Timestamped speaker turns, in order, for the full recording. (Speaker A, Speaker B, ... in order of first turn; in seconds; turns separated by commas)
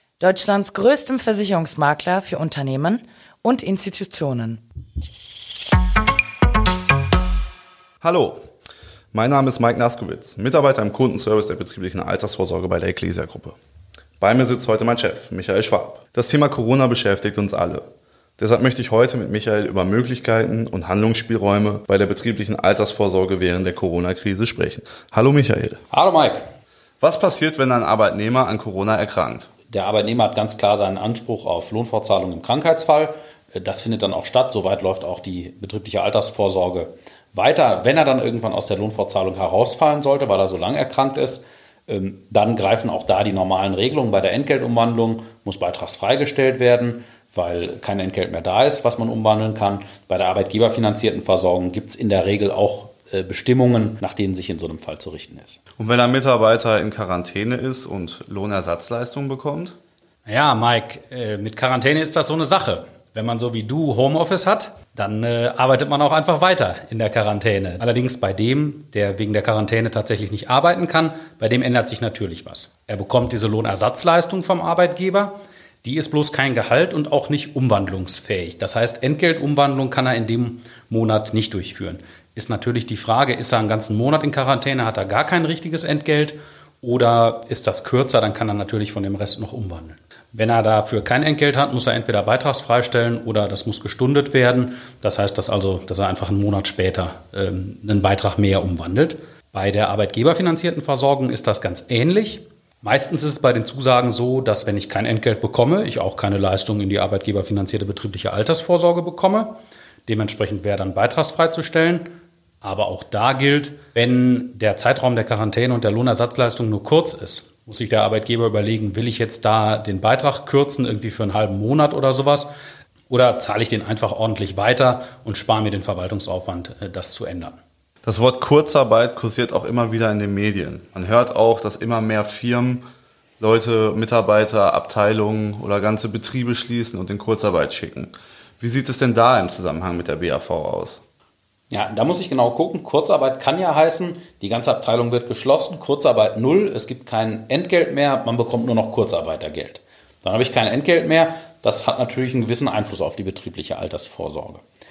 Speaker A: 0.2-4.6, Speaker B: 8.0-8.4, Speaker B: 9.1-13.6, Speaker B: 14.2-17.9, Speaker B: 18.4-25.8, Speaker C: 25.9-26.4, Speaker B: 27.0-29.5, Speaker C: 29.7-55.6, Speaker B: 55.8-59.8, Speaker C: 60.3-109.5, Speaker C: 110.1-112.1, Speaker C: 112.6-122.5, Speaker C: 123.1-127.6, Speaker B: 128.1-132.8, Speaker B: 133.4-141.0, Speaker C: 141.7-154.6